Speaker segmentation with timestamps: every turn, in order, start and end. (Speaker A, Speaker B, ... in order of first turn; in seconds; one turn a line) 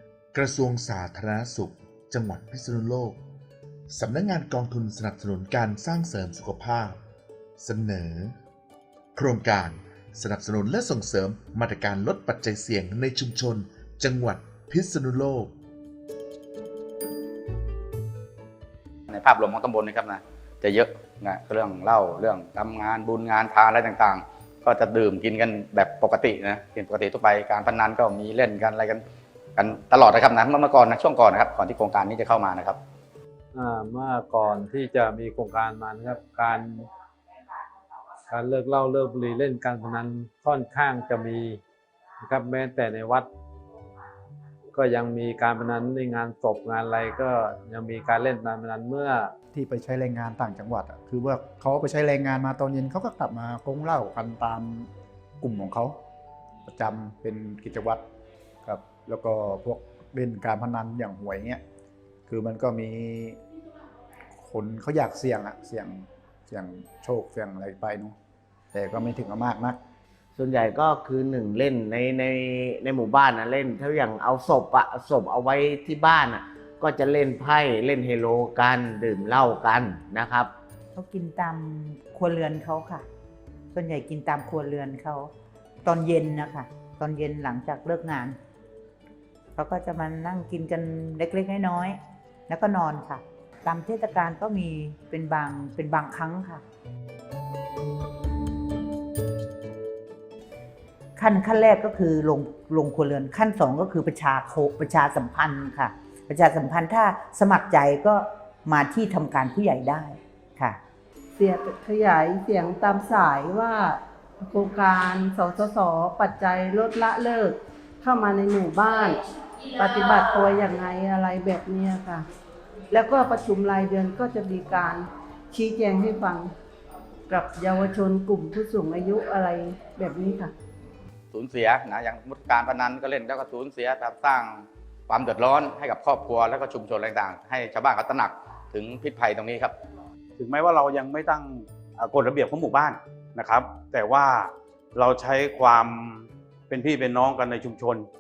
Speaker A: 0.3-3.2
Speaker A: 3.9-7.0
Speaker A: 7.6-8.3
Speaker A: 9.2-15.5
Speaker B: 19.1-29.0
Speaker B: 29.6-32.8
Speaker C: 33.5-36.9
Speaker C: 38.3-41.6
Speaker C: 42.2-43.3
Speaker C: 44.7-49.3
Speaker D: 49.5-54.9
Speaker D: 55.4-56.0
Speaker D: 56.7-58.0
Speaker D: 58.6-61.6
Speaker D: 62.3-63.4
Speaker D: 64.4-68.2
Speaker D: 68.7-69.8
Speaker E: 70.3-80.5
Speaker F: 80.9-83.1
Speaker F: 83.7-85.3
Speaker F: 85.8-88.4
Speaker F: 89.6-96.6
Speaker F: 101.2-110.8
Speaker G: 111.4-119.2
Speaker G: 119.7-122.3
Speaker G: 122.9-126.5
Speaker G: 127.3-130.5
Speaker B: 131.3-139.7
Speaker H: 140.4-145.9
Speaker B: 145.2-145.7
Speaker H: 146.7-148.1